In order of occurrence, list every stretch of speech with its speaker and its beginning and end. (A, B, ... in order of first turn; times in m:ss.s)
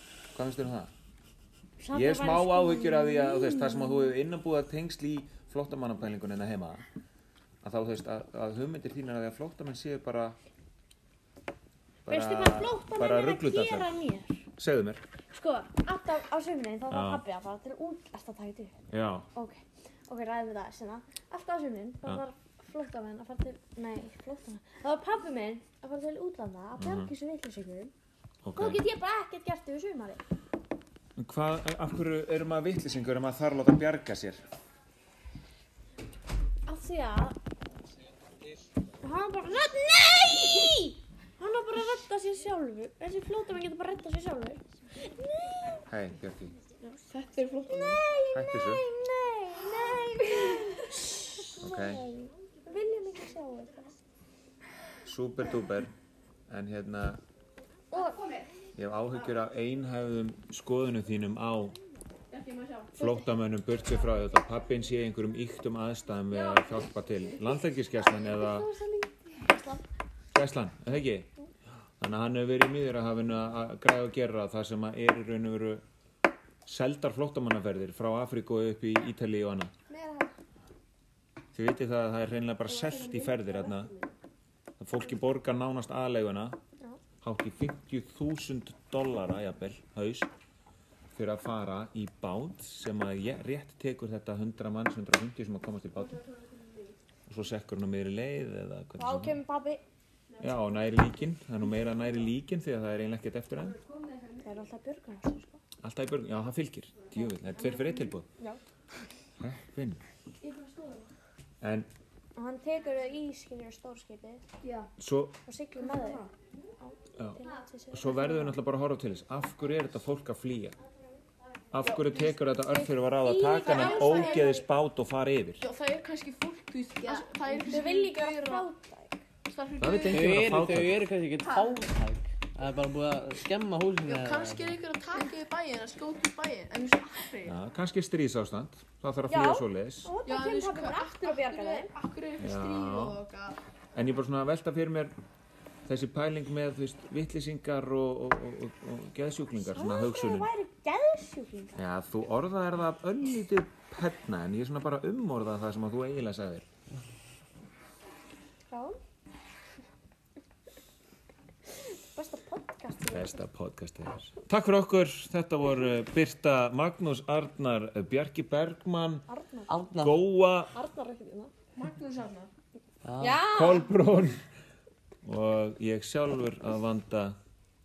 0:00.3-0:00.9 A
0:01.8-0:04.2 B
0:01.9-0:06.8 A
0:07.6-0:10.4 A
0:12.1-0:13.9 A
0:12.1-0:14.4 B
0:14.6-0:15.0 A
0:15.3-0:18.8 B
0:16.9-0:17.2 A
0:18.9-0:19.3 A
0:19.3-0:27.9 B
0:26.8-0:27.1 A
0:28.4-0:28.8 A
0:28.6-0:30.2 B
0:31.2-0:34.4 A
0:36.7-0:37.4 B
0:39.0-0:45.8 B
0:45.9-0:46.6 A
0:46.8-0:48.0 C
0:47.9-0:54.0 B
0:48.3-0:48.8 A
0:51.6-0:52.0 A
0:55.0-0:55.9 A
0:56.5-0:57.2 A
0:57.9-0:58.2 B
0:58.1-0:58.5 C
0:58.8-1:01.8 A
1:02.3-1:02.9 C
1:03.0-1:03.2 B
1:03.0-1:08.7 A
1:06.4-1:06.7 C
1:08.0-1:09.8 B
1:10.3-1:11.3 A
1:12.0-1:15.8 A
1:16.7-1:19.7 A
1:19.9-1:20.3 B
1:21.5-1:23.9 A
1:22.7-1:24.1 C
1:24.8-1:26.6 A
1:27.2-1:30.3 A
1:31.1-1:36.2 A
1:36.0-1:37.0 C
1:37.3-1:39.4 A
1:39.0-1:39.8 B
1:40.4-1:43.8 A
1:43.6-1:44.5 C
1:44.4-1:45.6 B
1:45.8-1:48.3 A
1:47.6-1:48.0 C
1:49.4-1:50.0 A
1:50.4-1:51.1 C
1:51.6-1:51.9 A
1:52.4-1:54.4 B
1:54.6-1:54.9 C
1:55.0-1:55.4 A
1:55.5-1:56.3 B
1:55.8-1:56.3 C
1:56.8-1:58.6 B
1:57.2-2:00.8 A
2:01.7-2:05.6 A
2:01.8-2:02.4 C
2:02.7-2:04.7 B
2:03.6-2:04.5 C
2:05.6-2:08.7 C
2:07.1-2:09.2 B
2:09.5-2:10.4 C
2:09.8-2:11.0 A
2:10.1-2:14.8 D
2:11.4-2:11.8 C
2:14.0-2:17.6 C
2:17.4-2:20.2 A
2:19.3-2:21.9 B
2:20.3-2:23.6 C
2:22.4-2:23.2 A
2:23.9-2:25.2 A
2:25.9-2:30.5 A
2:29.6-2:31.8 B
2:31.8-2:36.7 A
2:38.7-2:39.0 B
2:42.1-2:43.4 B
2:43.1-2:49.3 A
2:49.3-2:49.7 B
2:49.7-2:50.2 D
2:49.9-2:50.7 A
2:50.7-2:51.5 B
2:51.8-2:52.5 C
2:53.0-2:53.4 D
2:53.2-2:53.9 B
2:53.5-2:54.4 A
2:55.2-2:57.4 A